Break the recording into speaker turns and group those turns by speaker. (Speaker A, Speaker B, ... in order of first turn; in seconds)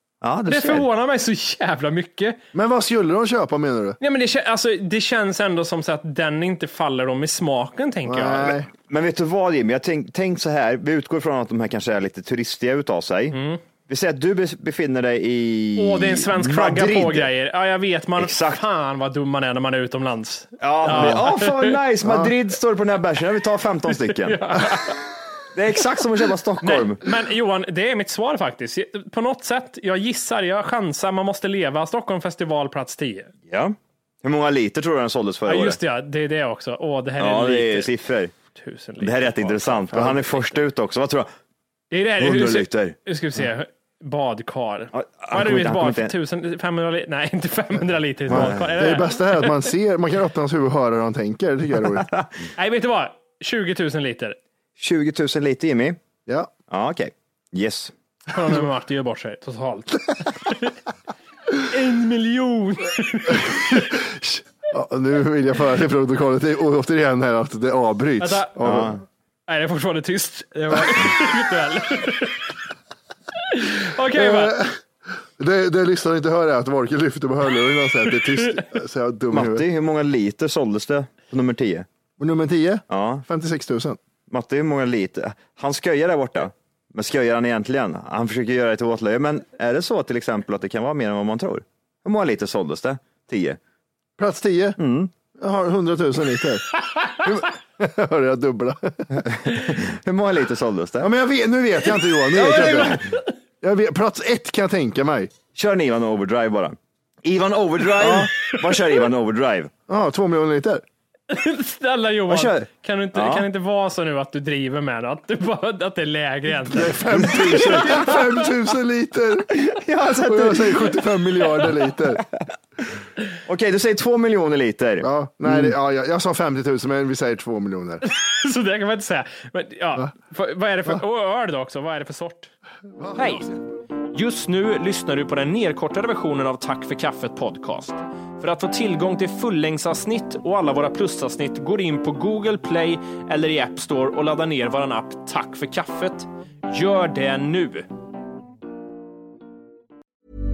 Speaker A: 0.2-0.9, 8.9-17.3, 18.2-18.6, 20.6-24.6, 25.6-27.1, 33.5-35.8, 37.2-38.3, 39.0-41.3, 42.2-43.0, 44.9-46.1, 48.3-48.6, 54.8-56.0, 56.7-57.9, 68.6-69.0, 79.3-81.9, 82.9-83.2, 84.3-93.6, 94.8-95.1, 99.1-101.1, 102.3-103.1, 105.5-109.7, 112.3-113.5, 117.3-117.9, 119.5-121.0, 123.5-125.1
Speaker B: 0.5-2.4, 4.0-8.6, 13.3-13.6, 15.8-21.8, 23.9-25.0, 26.6-33.3, 35.5-37.9, 38.5-40.6, 41.9-49.7, 52.6-54.4, 58.3-60.8, 61.5-63.8, 68.2-68.9, 69.5-72.5, 73.5-74.6, 102.5-103.2, 111.3-118.2, 128.0-132.5, 133.2-133.5, 134.1-147.9
Speaker C: 2.5-4.0, 8.1-8.7, 20.9-21.2, 22.0-22.3, 48.3-52.1, 63.3-69.0, 74.1-74.8, 75.4-79.7, 82.2-84.0, 94.2-94.8, 95.4-99.2, 101.0-103.0, 103.6-105.3, 108.0-108.3, 109.9-110.8, 116.7-119.5, 120.1-122.2, 125.0-128.0, 132.9-133.7